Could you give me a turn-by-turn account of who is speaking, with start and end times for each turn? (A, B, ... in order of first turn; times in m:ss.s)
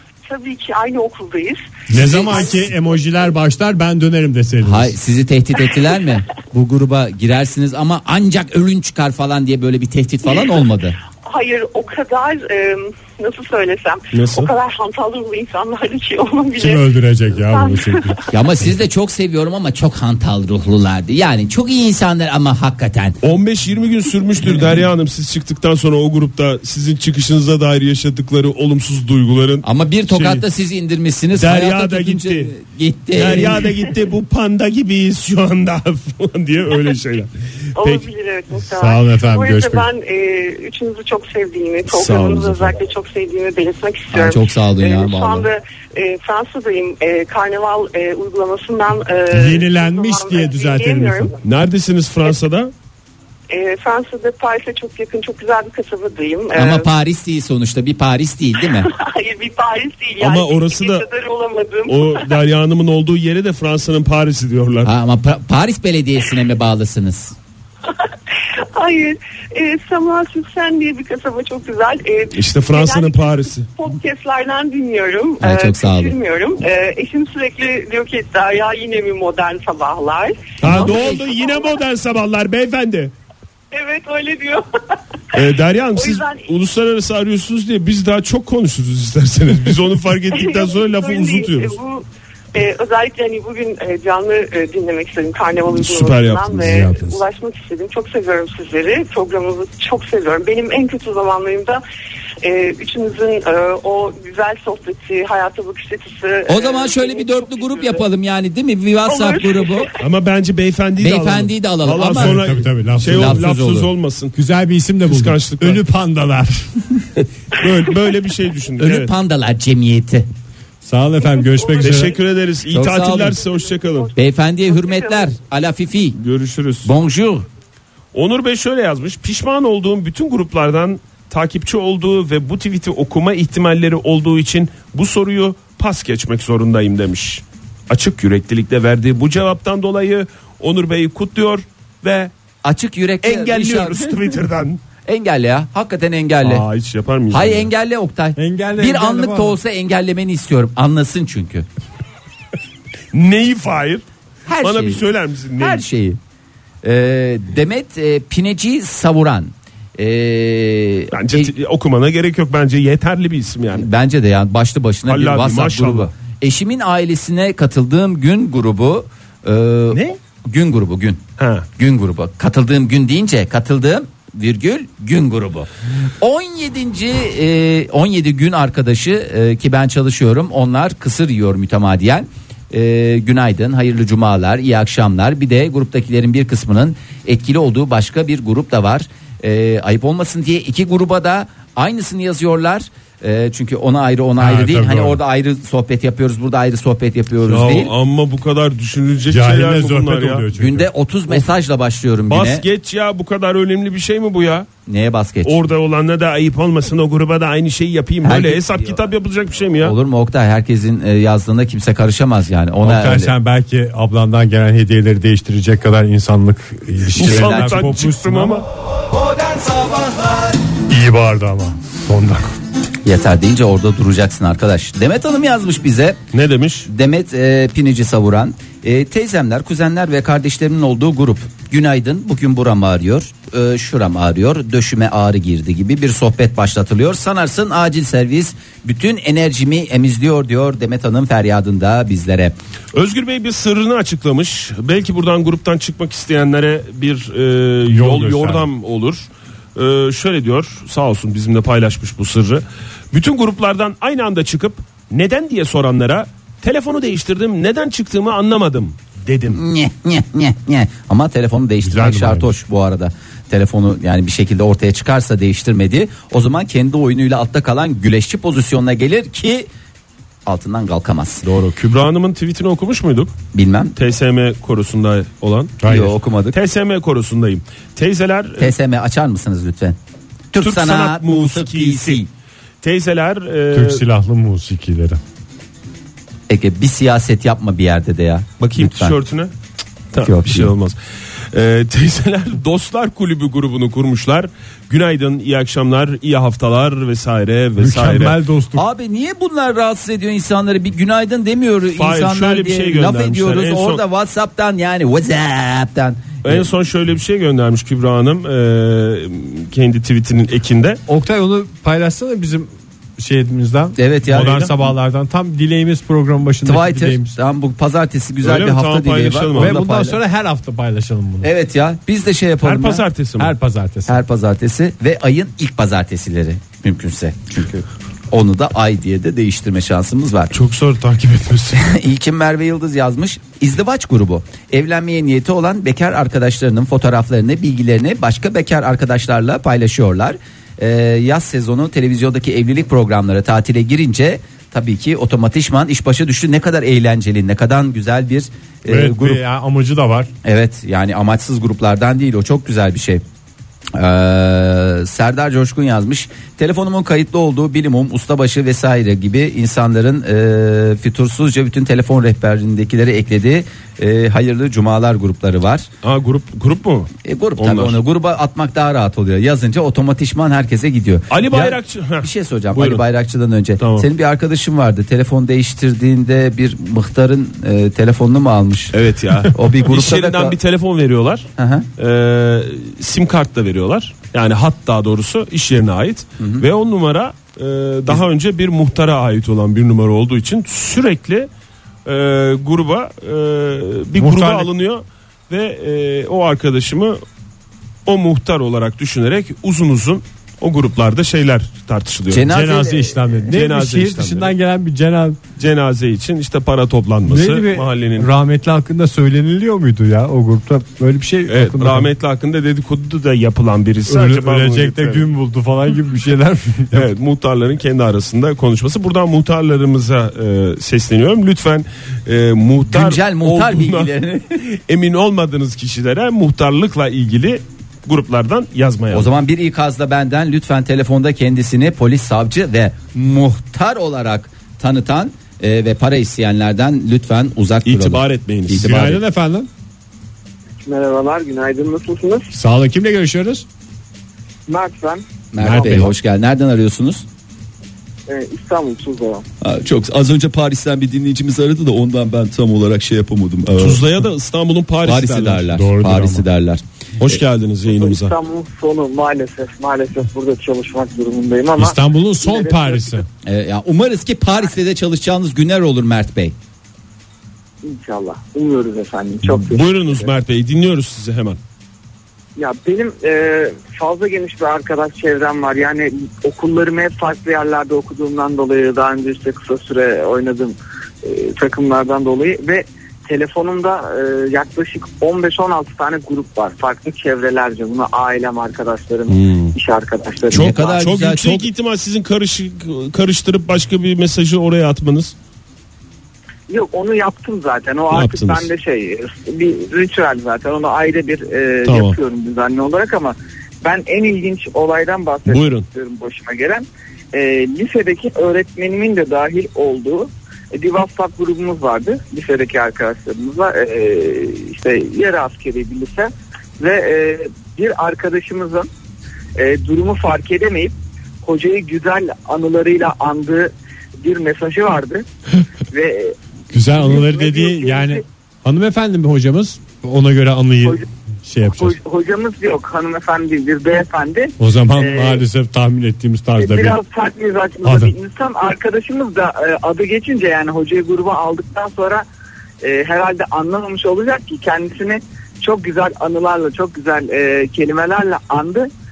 0:00.3-0:02.7 A
0:01.9-0:04.9 B
0:04.6-0:11.0 C
0:11.2-0:18.2 A
0:14.1-0:14.5 D
0:16.6-0:18.7 B
0:18.3-0:23.2 C
0:23.2-0:30.4 D
0:29.6-0:33.6 C
0:31.3-0:32.5 D
0:33.2-0:38.1 D
0:37.8-0:51.4 A
0:38.8-0:39.9 B
0:41.9-0:42.8 D
0:44.1-0:45.5 C
0:49.3-0:51.4 B
0:51.4-0:52.7 D
0:53.5-0:56.9 A
0:56.5-0:58.9 C
0:58.8-1:02.4 A
1:00.2-1:01.1 D
1:01.9-1:04.9 D
1:04.8-1:07.4 C
1:08.7-1:21.8 A
1:12.3-1:13.7 D
1:15.4-1:16.2 C
1:20.6-1:23.1 D
1:23.7-1:24.6 A
1:25.3-1:31.8 D
1:25.9-1:26.5 A
1:30.3-1:41.8 A
1:35.7-1:36.8 D
1:36.6-1:37.2 B
1:42.4-1:48.1 A
1:46.5-1:49.9 C
1:49.1-1:50.0 A
1:50.0-1:54.4 D
1:51.0-1:52.4 C
1:52.1-1:53.5 B
1:53.1-1:53.9 C
1:54.3-1:57.0 B
1:55.0-1:55.8 D
1:57.5-1:59.1 D
1:58.8-2:00.3 C
2:00.8-2:02.2 B
2:01.2-2:02.2 A
2:01.8-2:04.1 D
2:02.7-2:03.4 C
2:03.4-2:05.3 A
2:04.2-2:06.2 C
2:06.2-2:06.9 D
2:06.8-2:07.5 C
2:08.1-2:22.3 D
2:22.6-2:24.2 C
2:23.2-2:24.8 D
2:25.0-2:26.6 C
2:26.4-2:27.7 D
2:27.3-2:31.7 C
2:28.4-2:29.6 B
2:33.1-2:34.0 D
2:34.5-2:35.0 C
2:34.6-2:35.8 D
2:35.6-2:36.2 C
2:36.8-2:41.5 C
2:41.1-2:43.9 D
2:43.8-2:51.2 C
2:45.1-2:46.1 D
2:51.4-2:51.7 D
2:51.8-2:55.7 C
2:56.2-3:17.9 C
3:14.4-3:15.2 B
3:17.4-3:20.5 D
3:19.3-3:20.9 B
3:20.6-3:22.6 C
3:22.3-3:24.7 D
3:24.9-3:25.7 C
3:25.4-3:30.0 D
3:28.2-3:29.0 C
3:29.8-3:33.4 C
3:32.8-3:38.7 B
3:37.2-3:37.9 C
3:37.2-3:38.7 D
3:40.9-3:42.5 B
3:43.0-3:46.2 C
3:46.3-3:46.9 D
3:46.9-4:02.6 C
4:02.9-4:19.6 D
4:07.9-4:08.7 B
4:19.5-4:29.7 C
4:21.8-4:22.5 B
4:30.5-4:31.5 C
4:31.4-4:33.3 D
4:33.5-4:33.9 C
4:34.0-4:35.8 D
4:35.8-4:36.1 B
4:35.9-4:36.6 C
4:36.5-4:38.7 D
4:38.6-4:40.0 C
4:40.5-4:42.3 C
4:40.6-4:42.2 D
4:42.8-4:44.0 D
4:43.7-4:45.2 B
4:46.5-4:49.2 C
4:48.6-4:49.5 D
4:50.1-4:51.0 D
4:50.2-4:50.7 C
4:51.5-4:58.4 D
4:57.8-4:58.8 B
4:58.8-5:06.7 C
5:02.0-5:04.0 D
5:06.4-5:11.0 D
5:11.1-5:17.4 B
5:14.0-5:14.7 C
5:14.3-5:14.8 D
5:16.6-5:20.2 C
5:18.4-5:19.8 D
5:19.6-5:21.5 B
5:21.4-5:23.0 C
5:22.6-5:23.5 D
5:23.4-5:24.2 B
5:24.1-5:30.5 C
5:30.5-5:31.8 D
5:31.8-5:49.4 C
5:48.9-5:50.3 B
5:50.4-5:53.2 C
5:53.9-6:05.9 C
6:06.0-6:08.0 D
6:07.2-6:19.0 C
6:11.3-6:13.0 D
6:13.8-6:14.1 D
6:18.9-6:31.5 D
6:19.5-6:20.6 C
6:21.6-6:21.9 C
6:26.4-6:26.7 C
6:32.0-6:37.2 D
6:34.2-6:34.7 B
6:38.1-6:42.5 D
6:42.3-6:43.4 C
6:42.5-6:45.4 B
6:43.5-6:44.5 D
6:45.6-6:48.3 D
6:47.3-6:52.1 B
6:51.5-6:55.3 D
6:54.1-6:57.1 B
6:56.9-7:04.1 D
7:02.9-7:04.5 C
7:04.9-7:09.3 D
7:09.1-7:19.1 C
7:17.9-7:19.2 D
7:18.7-7:19.7 B
7:20.8-7:22.5 E
7:22.5-7:23.6 B
7:24.7-7:26.0 E
7:25.5-7:27.2 C
7:25.6-7:26.1 B
7:28.3-7:29.4 E
7:29.6-7:34.0 C
7:33.8-7:35.7 D
7:35.0-7:36.8 C
7:35.7-7:36.5 B
7:37.2-7:38.3 D
7:37.9-7:43.2 E
7:41.8-7:43.3 B
7:43.4-7:46.6 C
7:47.8-7:50.3 E
7:49.4-7:51.6 D
7:52.6-8:10.8 E
8:09.3-8:09.7 D
8:10.5-8:11.7 C
8:10.5-8:15.3 D
8:16.7-8:38.9 E
8:18.1-8:18.7 D
8:21.8-8:22.2 D
8:25.5-8:25.9 D
8:39.6-8:43.7 E
8:44.2-8:45.3 E
8:45.9-8:46.4 E
8:46.7-8:52.0 B
8:46.9-8:48.2 E
8:51.7-8:55.4 E
8:54.6-8:57.0 B
8:56.6-9:02.2 E
8:57.8-8:58.1 B
9:02.8-9:08.9 E